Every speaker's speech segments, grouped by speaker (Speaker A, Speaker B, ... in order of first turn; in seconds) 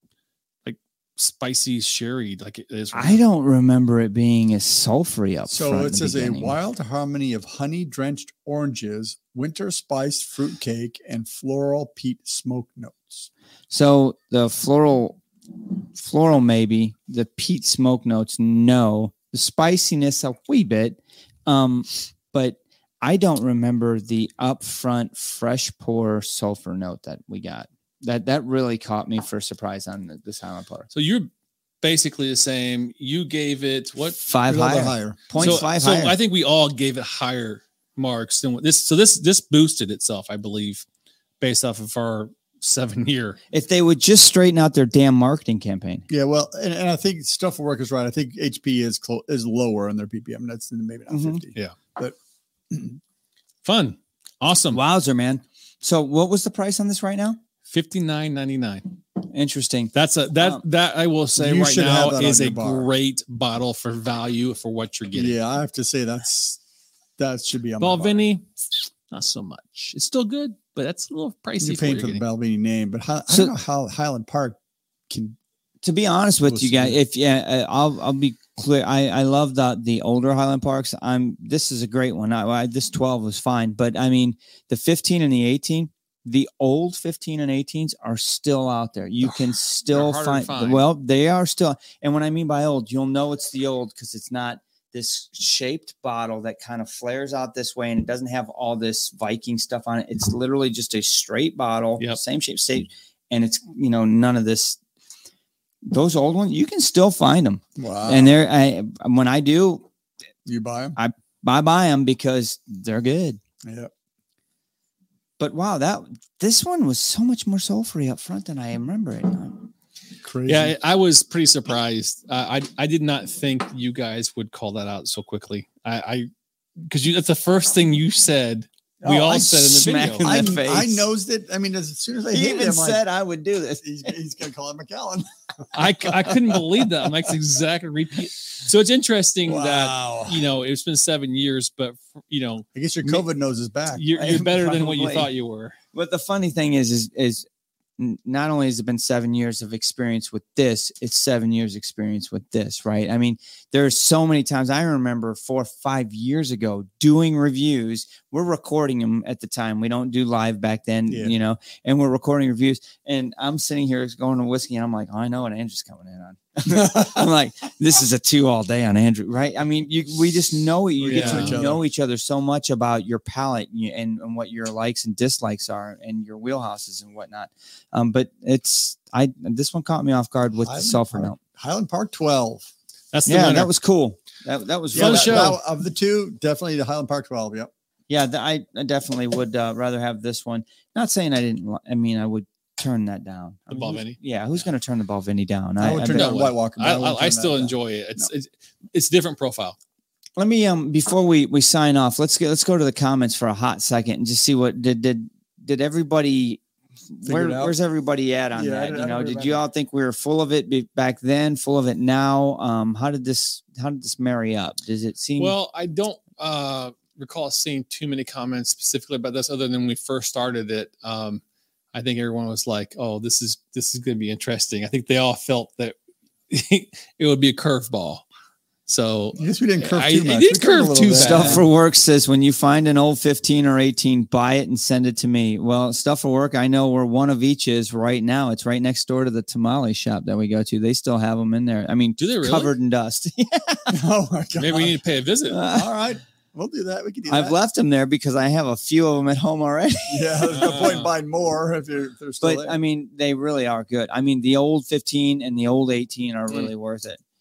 Speaker A: 0.6-3.2, 30.9-31.3, 31.8-34.2, 35.4-40.8, 41.4-43.4, 53.6-54.8, 57.7-58.9, 59.9-65.4, 67.8-72.2, 89.2-90.9, 120.5-130.3, 135.7-142.7, 143.9-145.8, 171.1-171.6, 183.1-183.7, 184.9-185.6, 193.7-194.6, 196.1-199.8, 215.4-221.4, 221.9-225.9, 226.5-228.2, 228.9-231.7, 242.2-242.7, 244.6-245.6, 250.5-251.1
Speaker B: 2.9-6.5, 13.7-15.2, 15.9-30.9, 34.2-36.1, 43.5-46.0, 51.1-51.4, 54.7-57.4, 59.2-60.6, 75.8-104.8, 105.8-109.8, 111.0-113.4, 115.4-119.7, 129.7-131.0, 132.3-133.8, 144.1-145.3, 145.9-147.4, 148.0-181.4, 183.2-185.5, 188.1-196.5, 200.4-206.6, 207.1-215.5, 231.0-243.9, 245.5-245.9, 247.3-251.0, 252.4-257.2
Speaker C: 5.5-13.3, 34.5-35.6, 46.1-52.1, 52.7-53.0, 61.4-62.9, 65.1-66.6, 67.2-68.2, 71.6-74.6, 75.1-75.4, 76.5-77.0, 107.8-108.4, 110.4-111.0, 113.6-113.9, 120.2-120.7, 129.0-133.0, 133.8-136.6, 139.4-140.5, 142.7-144.0, 161.1-161.3, 166.7-167.2, 171.0-171.8, 180.6-182.7, 184.9-187.7, 195.8-198.3, 207.2-207.8, 208.5-209.6, 229.4-231.7, 243.9-245.0, 245.6-247.6, 250.1-252.8